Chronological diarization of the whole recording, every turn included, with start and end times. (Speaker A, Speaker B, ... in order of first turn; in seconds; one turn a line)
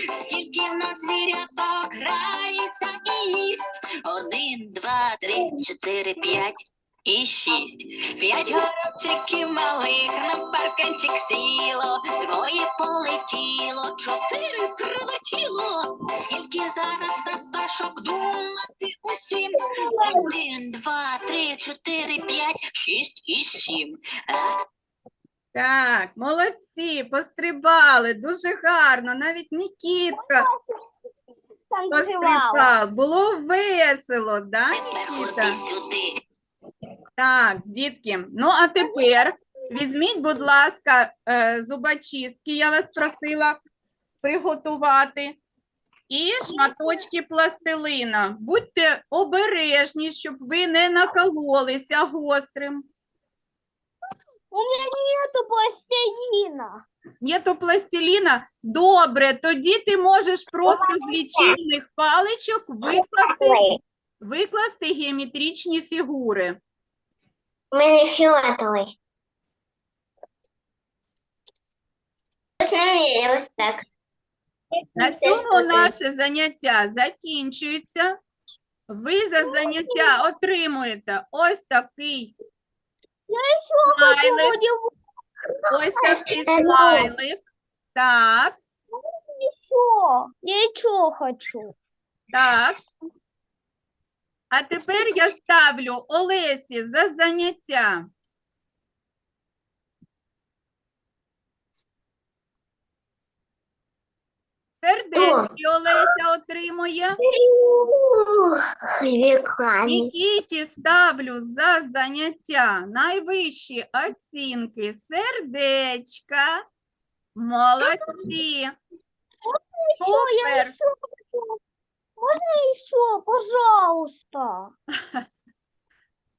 Speaker A: 0.2-24.5
Speaker B: 19.8-20.2
Speaker C: 25.5-30.5
Speaker B: 30.1-30.7
Speaker B: 31.7-32.7
Speaker C: 31.9-35.6
Speaker A: 34.7-36.1
Speaker C: 37.2-43.6
Speaker B: 38.8-39.1
Speaker C: 44.2-45.4
Speaker C: 46.1-52.8
Speaker B: 46.5-46.8
Speaker B: 54.5-56.8
Speaker C: 57.2-63.6
Speaker D: 62.9-63.8
Speaker C: 64.2-66.6
Speaker D: 67.7-69.0
Speaker D: 72.6-73.8
Speaker D: 75.0-75.9
Speaker C: 75.0-78.2
Speaker C: 78.9-82.3
Speaker B: 79.6-80.2
Speaker B: 83.3-84.9
Speaker C: 83.8-84.5
Speaker C: 85.7-87.4
Speaker D: 86.0-87.1
Speaker C: 87.9-88.5
Speaker B: 89.3-91.7
Speaker C: 92.3-92.8
Speaker C: 94.5-98.0
Speaker C: 104.8-107.1
Speaker D: 105.2-105.5
Speaker D: 107.2-110.1
Speaker C: 109.8-116.6
Speaker C: 117.3-118.7
Speaker B: 119.8-121.5
Speaker C: 120.0-120.8
Speaker B: 122.2-124.7